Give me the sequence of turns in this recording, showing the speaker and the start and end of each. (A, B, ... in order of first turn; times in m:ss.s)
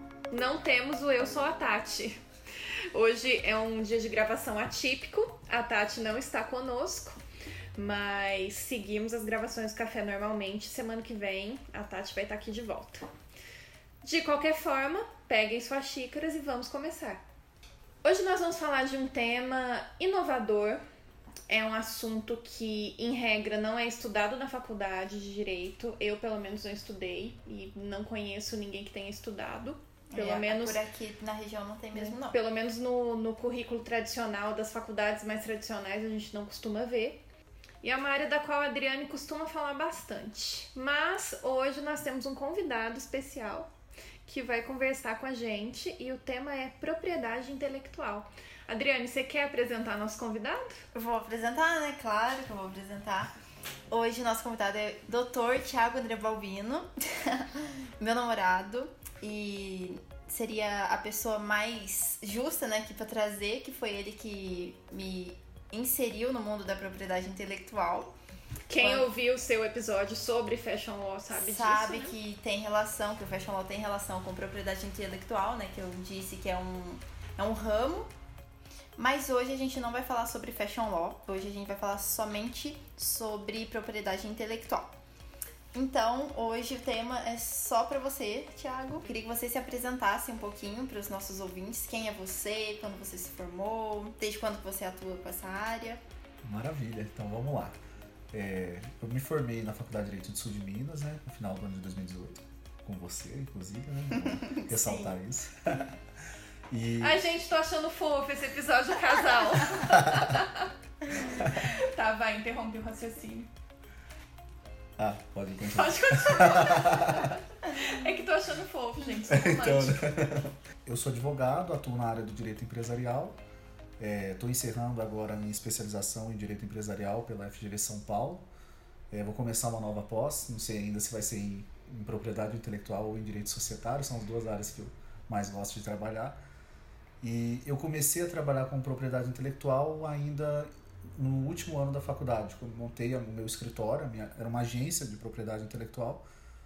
0:00.3-0:02.2 A
0:02.9-0:07.2 A
0:07.8-0:13.1 A
0:14.0-0:17.2 A
0:18.0-0:20.8 A
0:21.5-0:30.8 A
0:30.1-0:32.4 B
0:31.9-0:37.2 A
0:37.8-0:43.7 A
0:44.3-0:50.8 A
0:50.9-0:53.3 B
0:53.9-1:08.2 B
1:08.7-1:12.2 A
1:08.8-1:09.1 B
1:11.3-1:18.1 B
1:19.0-1:24.9 B
1:25.7-1:36.0 B
1:36.4-1:37.8 C
1:38.3-1:46.0 C
1:46.7-1:47.2 C
1:47.0-1:53.5 A
1:49.9-1:50.3 C
1:51.4-1:51.7 C
1:55.0-1:57.3 C
1:55.7-2:00.1 A
1:59.3-2:03.4 C
2:04.0-2:08.5 C
2:09.1-2:16.4 C
2:17.2-2:26.2 C